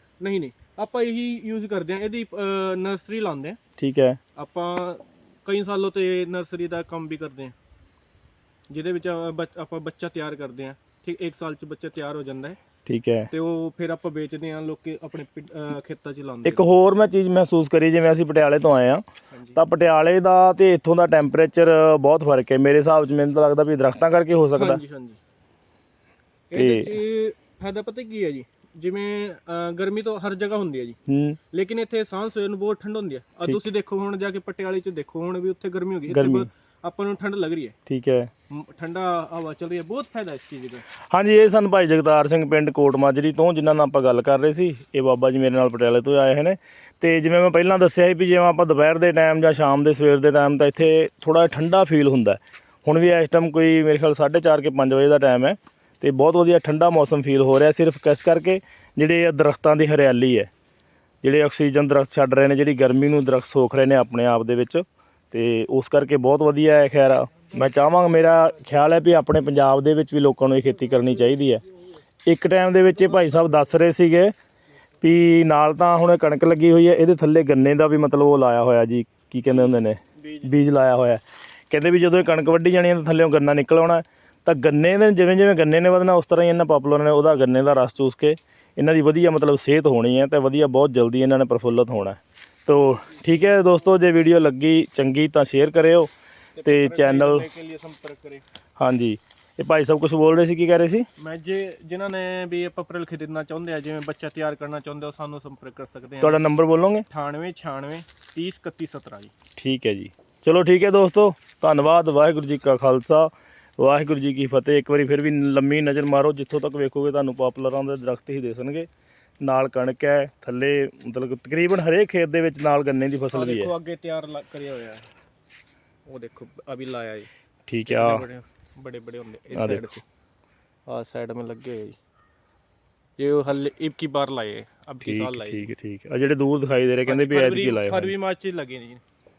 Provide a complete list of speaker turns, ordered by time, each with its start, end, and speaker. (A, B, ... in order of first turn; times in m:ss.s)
0:00.2-0:03.6 A
0:03.8-0:04.2 B
0:04.4-0:07.5 A
0:08.7-0:12.6 A
0:12.8-0:13.3 B
0:13.3-0:16.6 A
0:16.4-0:19.0 B
0:19.3-0:19.6 A
0:19.5-0:24.8 B
0:24.6-0:25.2 A
0:26.5-0:31.0 A
0:26.5-0:26.9 B
0:31.1-0:31.4 B
0:31.5-0:37.7 A
0:36.1-0:36.5 B
0:37.9-0:38.3 B
0:38.5-0:40.8 A
0:41.0-1:00.5 B
1:01.2-1:11.6 B
1:12.3-1:14.3 B
1:15.0-1:36.1 B
1:19.5-1:20.5 A
1:36.6-1:38.4 A
1:36.6-1:37.4 B
1:38.8-1:41.1 B
1:41.2-1:46.4 A
1:46.2-1:47.0 B
1:47.1-1:49.3 A
1:49.6-1:58.9 B
1:59.4-2:03.7 B
2:03.3-2:05.1 A
2:06.1-2:07.3 A
2:07.7-2:08.2 B
2:07.8-2:10.0 A
2:09.5-2:09.9 B
2:10.9-2:12.0 A
2:13.2-2:15.7 A
2:15.0-2:18.1 B
2:17.0-2:19.0 A